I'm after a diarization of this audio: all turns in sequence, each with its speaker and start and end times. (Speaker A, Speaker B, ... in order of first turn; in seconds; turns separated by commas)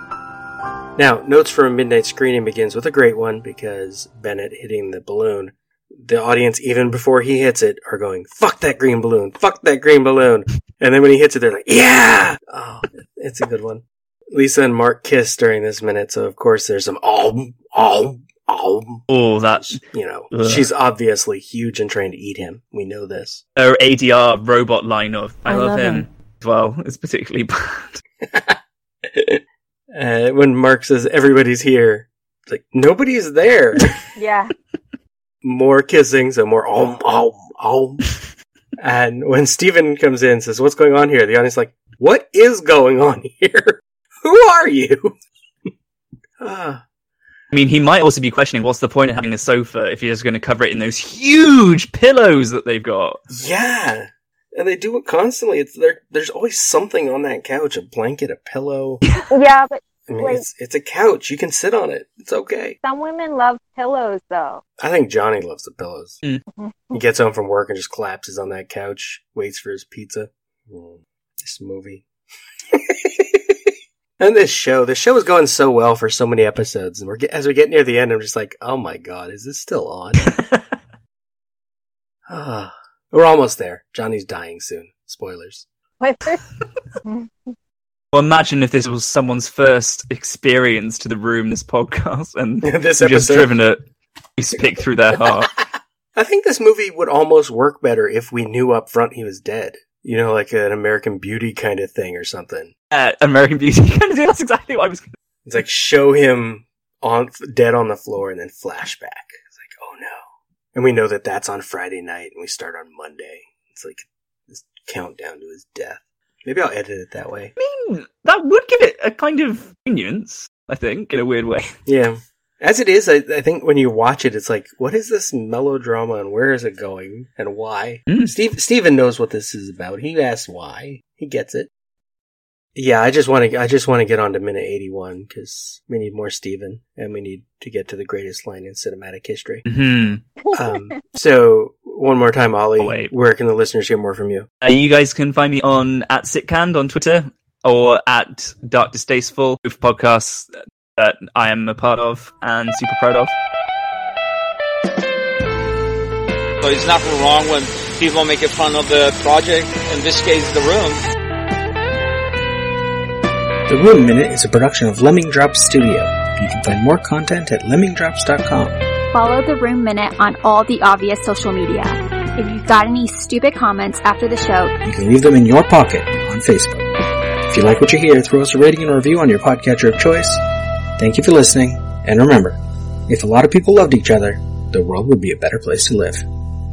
Speaker A: 1.0-19.0, Speaker B: 19.1-20.7, Speaker A: 19.6-23.4, Speaker B: 23.6-28.0, Speaker A: 28.2-28.6, Speaker A: 29.1-29.4, Speaker A: 29.9-34.0, Speaker C: 34.1-34.5, Speaker A: 35.4-38.0, Speaker A: 38.8-45.1, Speaker A: 46.4-46.8, Speaker B: 47.5-53.2, Speaker A: 53.3-59.0, Speaker C: 59.3-60.4, Speaker A: 60.1-62.8, Speaker C: 62.8-64.6, Speaker A: 64.8-66.2, Speaker C: 66.5-67.0, Speaker A: 66.9-72.0, Speaker A: 72.7-73.5, Speaker A: 74.2-80.3, Speaker B: 80.3-80.6, Speaker A: 82.3-85.6, Speaker C: 86.0-86.5, Speaker C: 87.0-87.5, Speaker B: 88.1-93.8, Speaker A: 92.6-93.5, Speaker B: 94.3-95.6, Speaker A: 96.1-102.7, Speaker B: 102.9-105.1, Speaker A: 105.4-110.2, Speaker A: 110.7-117.5, Speaker B: 117.6-121.7, Speaker A: 121.8-131.7, Speaker B: 128.1-128.3, Speaker A: 132.8-139.6, Speaker B: 139.7-140.2, Speaker C: 140.4-140.9, Speaker A: 140.5-144.5, Speaker B: 142.8-143.1, Speaker B: 144.6-153.3, Speaker D: 156.6-161.0, Speaker A: 163.7-168.7, Speaker E: 169.1-174.7, Speaker A: 174.8-176.8, Speaker A: 177.5-180.4, Speaker A: 181.0-186.2